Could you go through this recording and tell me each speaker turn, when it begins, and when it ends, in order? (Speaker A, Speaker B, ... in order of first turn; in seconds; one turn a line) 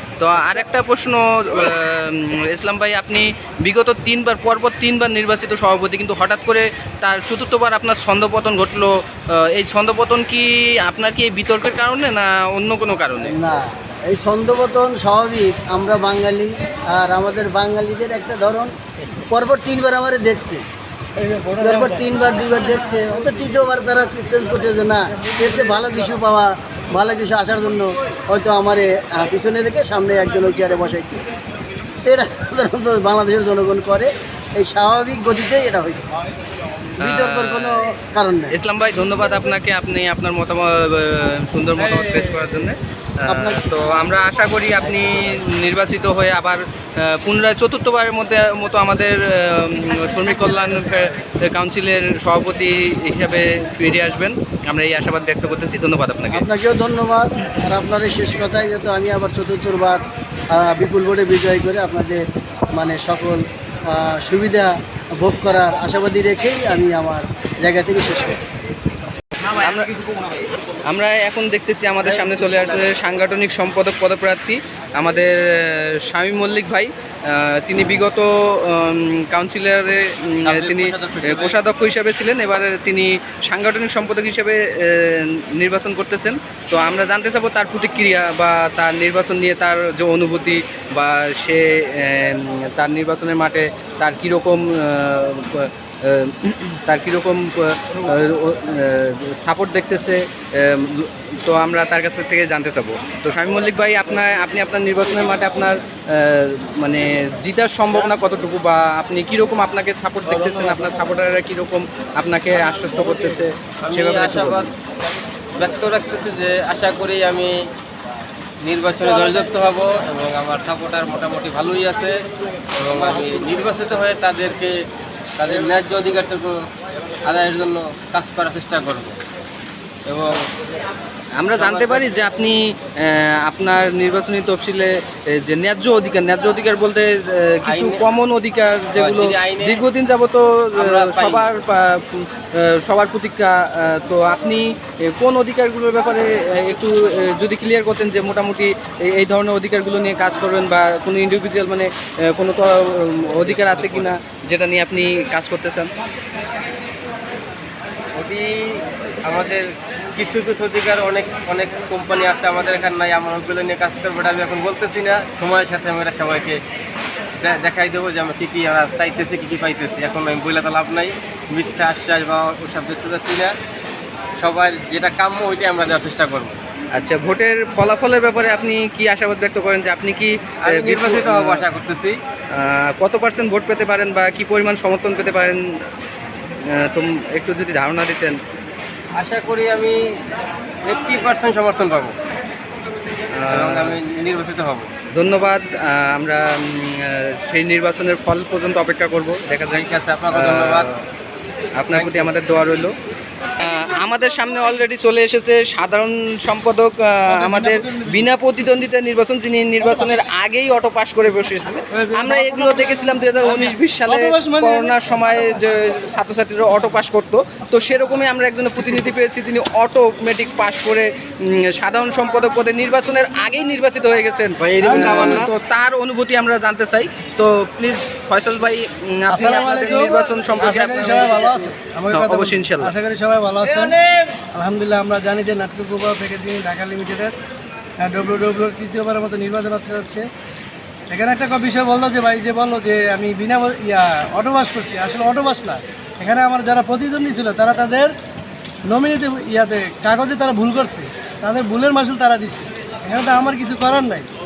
Speaker A: 0.2-13.3
Speaker B: 13.2-18.7
Speaker B: 19.3-20.6
Speaker B: 21.5-31.2
Speaker B: 32.0-36.0
Speaker B: 37.0-38.5
Speaker A: 37.0-37.9
Speaker A: 38.5-56.4
Speaker B: 43.3-43.7
Speaker B: 56.3-62.2
Speaker B: 62.7-68.4
Speaker A: 69.5-70.0
Speaker A: 70.8-114.7
Speaker C: 80.4-81.5
Speaker C: 110.3-110.9
Speaker C: 113.8-114.7
Speaker C: 115.6-117.5
Speaker C: 118.6-122.1
Speaker C: 122.8-124.7
Speaker C: 125.4-126.5
Speaker C: 127.2-129.2
Speaker C: 130.1-130.4
Speaker A: 131.4-155.9
Speaker C: 131.5-132.2
Speaker C: 137.7-138.0
Speaker C: 138.9-139.8
Speaker C: 140.8-141.5
Speaker C: 153.5-154.1
Speaker C: 158.2-159.6
Speaker C: 160.2-166.6
Speaker C: 167.4-173.5
Speaker C: 174.4-176.6
Speaker A: 176.9-181.6
Speaker C: 180.6-182.2
Speaker A: 182.5-185.6
Speaker A: 186.8-188.3
Speaker C: 189.2-190.0
Speaker C: 190.8-192.1
Speaker A: 193.3-194.0
Speaker C: 193.5-194.9
Speaker A: 195.1-201.0
Speaker C: 199.7-200.9
Speaker A: 201.8-202.9
Speaker C: 201.9-202.3
Speaker A: 203.6-232.9
Speaker D: 207.2-208.3
Speaker D: 211.9-215.7
Speaker C: 224.6-225.5
Speaker D: 224.8-225.4
Speaker D: 229.3-237.3
Speaker C: 233.6-234.4
Speaker D: 238.0-240.2
Speaker D: 241.1-248.1
Speaker D: 248.8-254.3